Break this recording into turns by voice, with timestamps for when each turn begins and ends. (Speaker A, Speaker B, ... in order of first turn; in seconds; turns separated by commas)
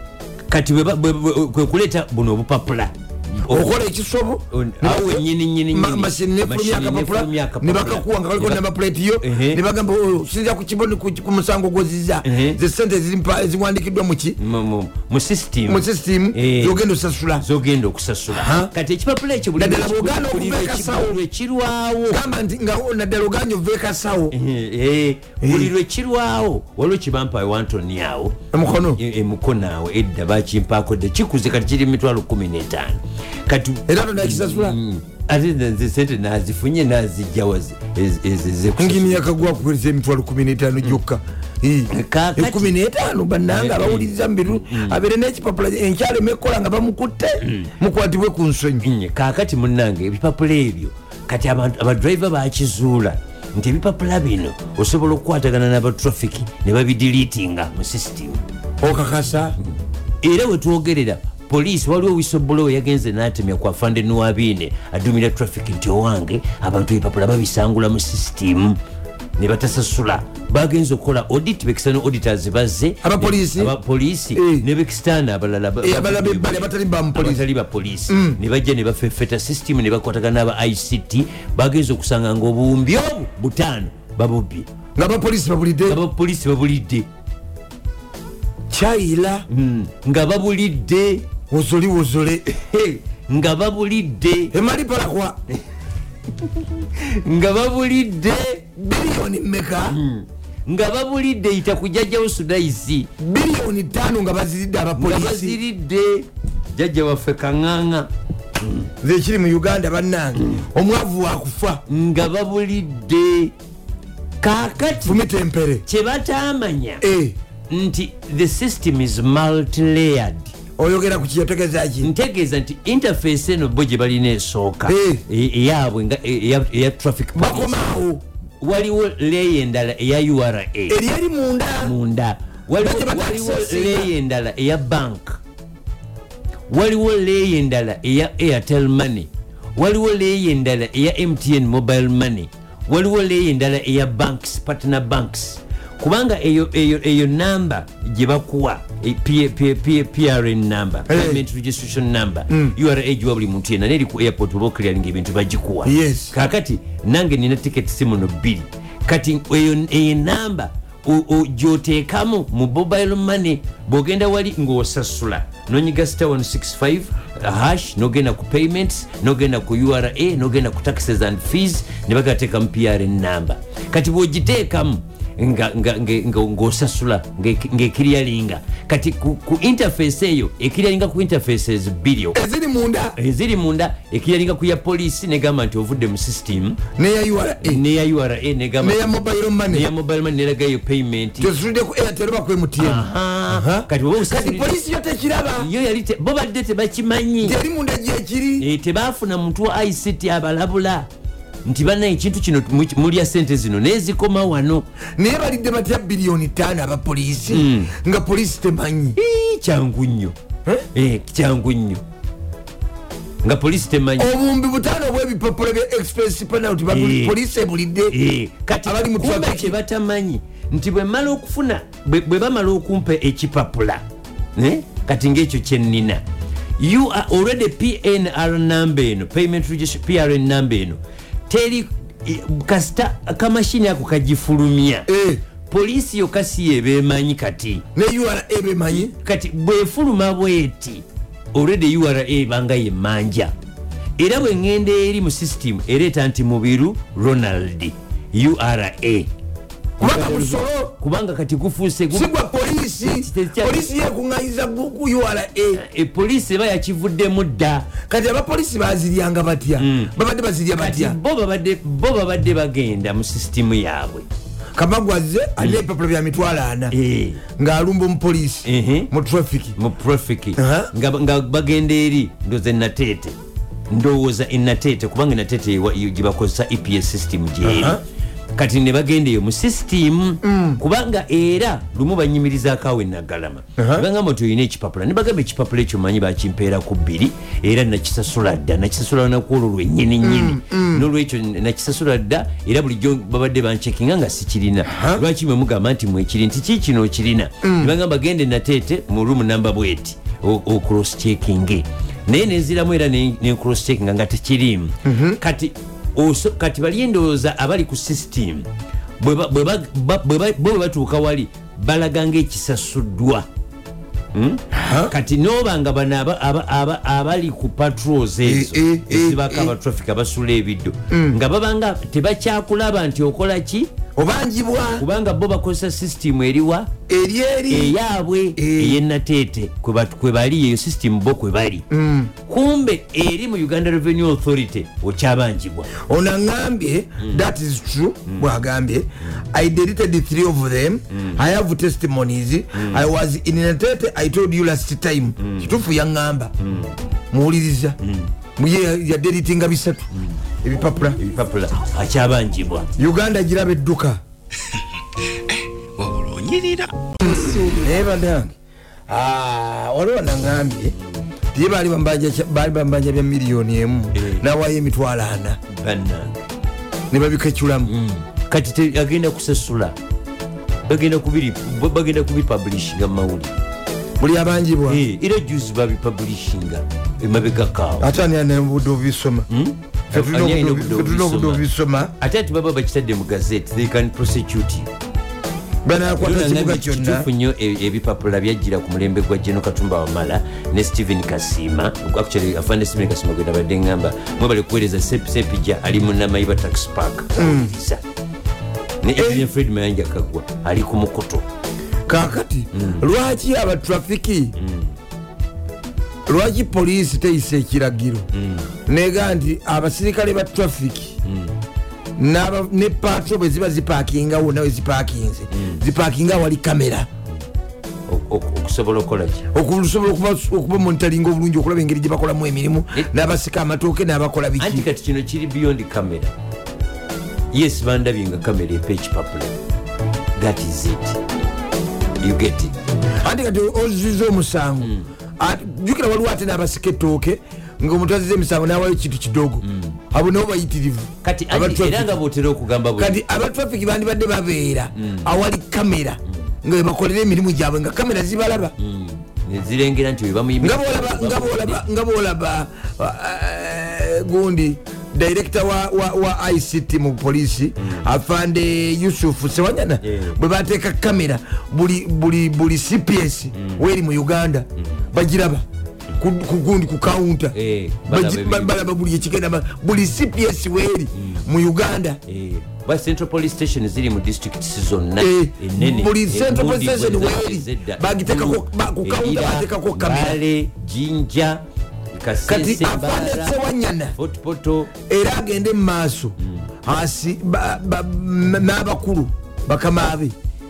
Speaker A: 0.5-3.8, Speaker B: 3.5-14.4, Speaker A: 4.5-8.6, Speaker A: 9.2-9.6, Speaker A: 12.2-12.6, Speaker A: 14.4-16.8, Speaker B: 15.7-17.4, Speaker A: 17.4-22.2, Speaker B: 18.3-18.7, Speaker B: 19.6-21.2, Speaker B: 22.1-24.3, Speaker A: 24.3-39.5, Speaker B: 25.4-25.7, Speaker B: 28.5-29.0, Speaker B: 33.9-34.8, Speaker B: 38.8-48.9, Speaker A: 41.9-42.7, Speaker A: 43.5-45.0, Speaker A: 47.4-47.7, Speaker A: 48.8-58.4, Speaker B: 58.8-59.5, Speaker A: 60.2-68.8, Speaker A: 69.4-84.7, Speaker B: 73.0-73.7, Speaker B: 74.3-74.7, Speaker B: 75.8-77.5, Speaker B: 78.1-78.4, Speaker B: 85.0-86.0, Speaker A: 85.8-87.1, Speaker B: 88.7-89.5, Speaker A: 89.5-91.2, Speaker B: 91.5-92.4, Speaker A: 92.5-94.5, Speaker B: 94.5-95.4, Speaker A: 97.0-98.6, Speaker B: 98.8-100.0, Speaker A: 99.8-103.1, Speaker B: 103.2-105.6, Speaker A: 105.0-108.1, Speaker A: 108.6-108.9, Speaker B: 109.0-111.8, Speaker A: 111.9-113.5, Speaker A: 114.4-115.2, Speaker B: 115.0-115.8, Speaker A: 115.8-117.0, Speaker B: 117.0-117.3, Speaker A: 117.7-120.5, Speaker B: 120.8-122.1, Speaker A: 122.0-127.8, Speaker B: 124.9-125.2, Speaker B: 127.3-128.2, Speaker A: 128.6-131.0, Speaker B: 130.9-131.9, Speaker A: 131.8-135.4, Speaker B: 132.8-134.1, Speaker A: 136.7-182.4, Speaker B: 151.1-151.4, Speaker B: 152.5-152.7, Speaker B: 155.8-156.3, Speaker B: 182.3-183.1, Speaker A: 183.2-186.8, Speaker B: 186.9-187.8, Speaker A: 187.6-191.5, Speaker B: 188.8-189.9, Speaker B: 191.4-195.7, Speaker A: 192.8-194.7, Speaker A: 195.6-197.6, Speaker B: 197.4-198.7, Speaker A: 198.6-201.1, Speaker A: 201.6-204.8, Speaker B: 205.2-209.2, Speaker A: 207.5-207.9, Speaker A: 209.2-210.3, Speaker A: 210.9-212.0, Speaker A: 213.4-214.3, Speaker B: 214.2-218.2, Speaker A: 216.9-217.4, Speaker A: 218.1-224.0, Speaker B: 218.7-219.8, Speaker A: 224.6-226.2, Speaker A: 226.8-235.1, Speaker B: 235.1-235.4, Speaker A: 235.7-237.8, Speaker B: 237.9-239.1, Speaker A: 238.9-243.5, Speaker A: 244.2-249.3, Speaker A: 250.0-252.3, Speaker B: 250.0-250.9, Speaker B: 252.1-255.8, Speaker A: 253.0-253.9, Speaker A: 255.8-257.9, Speaker B: 258.0-261.2, Speaker A: 259.8-260.1, Speaker A: 260.8-264.3, Speaker B: 264.8-266.9, Speaker A: 266.9-267.4, Speaker B: 267.6-269.8, Speaker A: 268.6-269.1, Speaker A: 269.8-273.3, Speaker B: 270.6-270.9, Speaker A: 273.9-278.0, Speaker B: 277.6-278.0, Speaker A: 278.6-308.7, Speaker B: 280.4-280.8, Speaker B: 283.8-284.1, Speaker B: 290.2-291.1, Speaker B: 294.9-295.2, Speaker B: 297.6-297.9, Speaker B: 305.0-305.4, Speaker A: 309.2-313.5, Speaker A: 314.3-323.9, Speaker B: 314.7-315.1, Speaker B: 318.4-319.7, Speaker B: 321.1-321.4, Speaker B: 324.2-325.1, Speaker A: 324.9-326.9, Speaker B: 327.1-327.9, Speaker A: 327.7-331.8, Speaker B: 328.6-329.0, Speaker B: 331.9-332.3, Speaker A: 332.4-335.9, Speaker B: 335.9-346.5, Speaker A: 341.1-341.4, Speaker A: 342.7-343.0, Speaker A: 345.4-345.8, Speaker A: 346.6-346.9, Speaker B: 347.3-347.9, Speaker A: 348.0-348.3, Speaker B: 348.6-350.1, Speaker B: 350.6-351.2, Speaker A: 351.2-352.9, Speaker B: 353.0-354.2, Speaker A: 356.0-356.9, Speaker B: 357.2-358.5, Speaker B: 359.1-360.9, Speaker B: 361.5-365.6, Speaker A: 364.1-364.4, Speaker A: 365.7-366.5, Speaker B: 367.1-367.9, Speaker A: 367.9-369.9, Speaker A: 370.9-373.6, Speaker B: 374.2-375.0, Speaker A: 374.9-378.1, Speaker B: 378.0-379.5, Speaker A: 379.5-381.6, Speaker B: 380.1-382.1, Speaker A: 382.2-384.9, Speaker B: 385.8-387.3, Speaker A: 386.2-398.0, Speaker B: 397.4-397.7, Speaker A: 399.0-401.4, Speaker B: 399.2-399.4, Speaker B: 402.1-404.5, Speaker A: 402.7-403.0, Speaker A: 404.6-404.9, Speaker B: 406.3-408.3, Speaker A: 408.3-408.7, Speaker B: 408.9-411.1, Speaker A: 411.2-411.5, Speaker B: 412.2-417.1, Speaker A: 415.5-415.8, Speaker A: 418.1-419.5, Speaker B: 419.5-424.9, Speaker A: 424.6-426.3, Speaker A: 427.5-429.5, Speaker A: 430.4-431.2, Speaker A: 432.2-432.8, Speaker B: 433.2-442.2, Speaker A: 434.8-435.1, Speaker A: 439.6-439.9, Speaker A: 441.2-443.2, Speaker B: 443.0-448.7, Speaker A: 445.0-445.3, Speaker A: 448.8-451.8, Speaker B: 450.6-465.6, Speaker A: 457.8-458.1, Speaker A: 460.0-460.4, Speaker A: 463.6-463.8, Speaker B: 466.2-467.5, Speaker A: 467.5-468.9, Speaker B: 468.1-472.2, Speaker A: 471.1-471.5, Speaker A: 472.3-481.6, Speaker B: 475.2-480.4, Speaker A: 482.1-483.6, Speaker B: 482.5-484.1, Speaker A: 484.1-484.9, Speaker B: 485.1-490.3, Speaker A: 486.4-486.7